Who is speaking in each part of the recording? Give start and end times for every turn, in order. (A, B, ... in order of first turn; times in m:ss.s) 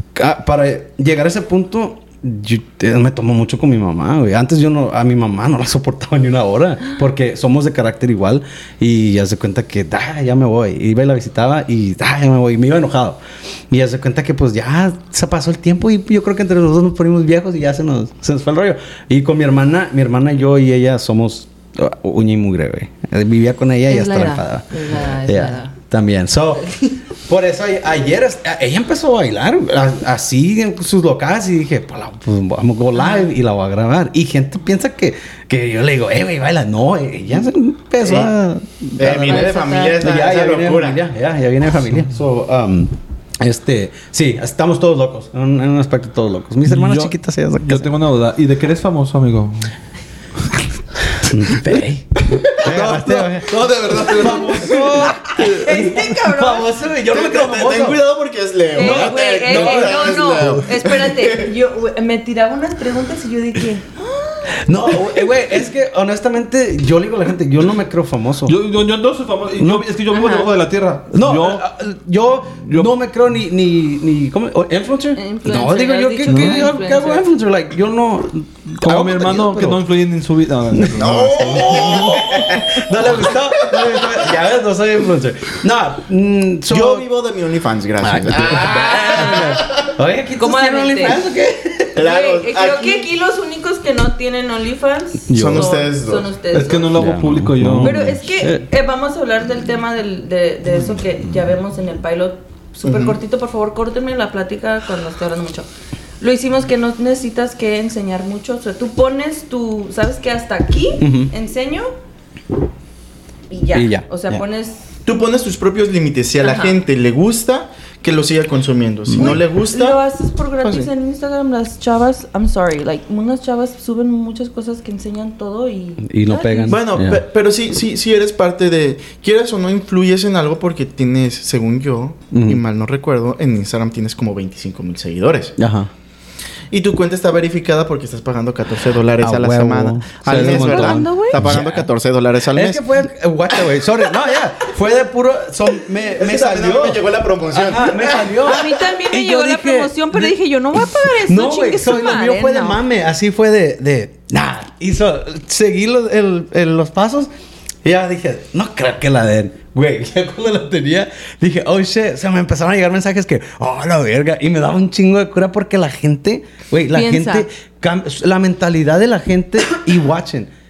0:00.2-0:13.2 A
0:13.7-0:26.7 A
0:23.9-0:25.8 B
0:26.7-0:26.9 B
0:27.2-0:47.9 A
0:33.0-0:33.3 B
0:38.0-0:38.3 C
0:39.0-0:41.0 C
0:39.2-0:40.2 B
0:46.7-0:49.7 D
0:50.4-0:50.7 D
0:51.2-0:58.0 A
0:51.7-0:55.7 D
0:55.3-0:56.7 B
0:57.1-1:01.5 C
0:58.7-1:04.6 B
0:58.8-1:00.4 A
1:04.6-1:08.6 A
1:08.5-1:11.6 D
1:09.6-1:09.9 A
1:10.1-1:10.5 B
1:11.1-1:19.8 A
1:12.6-1:12.9 D
1:15.2-1:17.3 B
1:16.3-1:16.7 D
1:18.8-1:22.6 D
1:20.7-1:27.1 A
1:21.0-1:24.1 C
1:26.7-1:29.6 C
1:28.0-1:32.0 A
1:28.5-1:29.6 B
1:30.4-1:31.2 B
1:32.0-1:33.1 C
1:32.0-1:37.0 B
1:35.3-1:35.7 A
1:35.3-1:36.3 C
1:36.5-1:38.0 D
1:37.0-1:38.6 A
1:37.8-1:45.7 B
1:42.8-1:43.2 C
1:46.2-1:51.9 B
1:51.0-1:51.3 A
1:53.5-1:54.8 B
1:53.7-1:54.4 A
1:55.1-2:00.0 C
1:56.4-1:56.8 B
1:59.1-1:59.4 A
1:59.2-2:06.8 B
2:00.6-2:00.9 C
2:06.0-2:07.2 A
2:06.7-2:15.6 C
2:12.3-2:12.6 A
2:15.6-2:15.9 A
2:16.7-2:22.8 C
2:19.2-2:21.9 A
2:20.3-2:21.4 B
2:22.5-2:37.3 A
2:26.2-2:28.5 C
2:28.4-2:32.8 B
2:37.8-2:50.5 A
2:46.9-2:47.5 B